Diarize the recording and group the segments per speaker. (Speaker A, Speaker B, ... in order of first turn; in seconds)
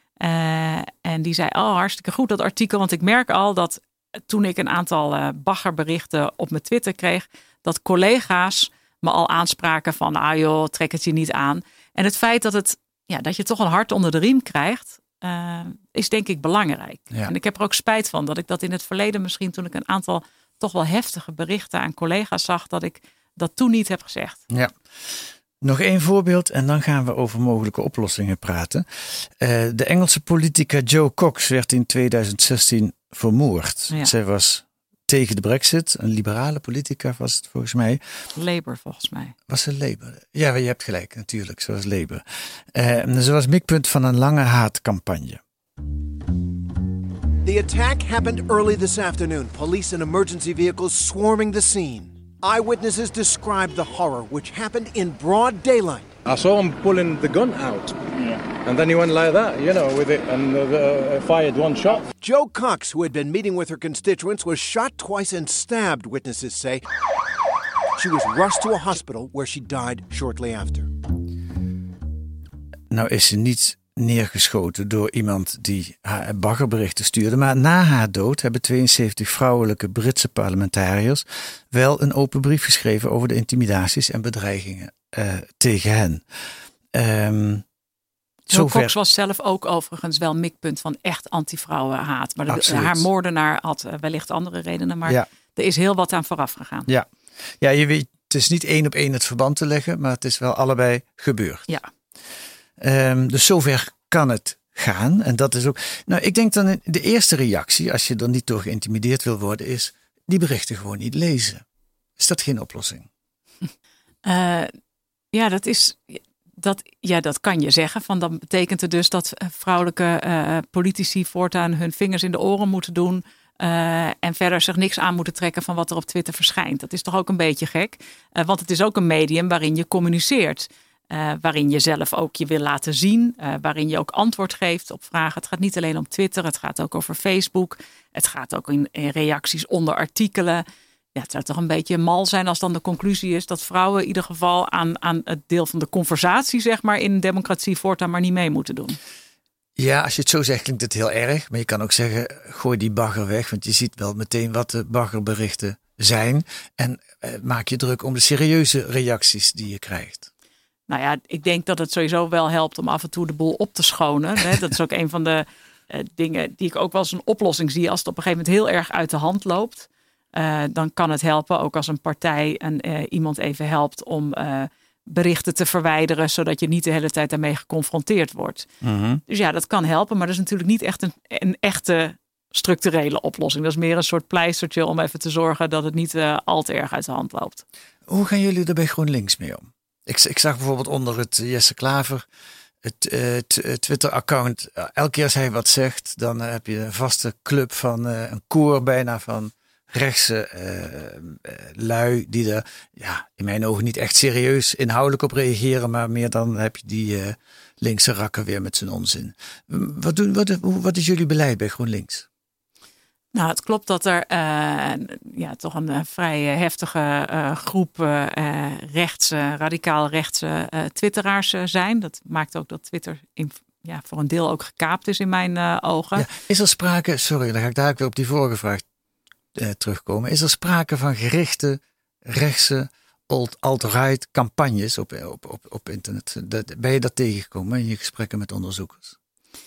Speaker A: 0.2-24.4, 38.4-39.4, 88.5-96.9, 114.2-114.7, 115.3-140.6, 141.2-149.0, 160.9-178.7, 179.3-187.6, 213.3-226.3
Speaker B: 24.5-38.0, 39.5-45.4, 72.9-86.2, 86.9-87.7, 88.5-88.9, 92.5-93.1, 97.6-101.7, 102.8-111.6, 112.2-113.1, 149.8-160.3, 178.8-179.2, 188.1-192.3, 192.8-212.3, 226.2-228.8, 229.6-239.2
Speaker C: 47.4-56.1, 62.2-66.8, 68.0-70.9
Speaker D: 56.3-62.1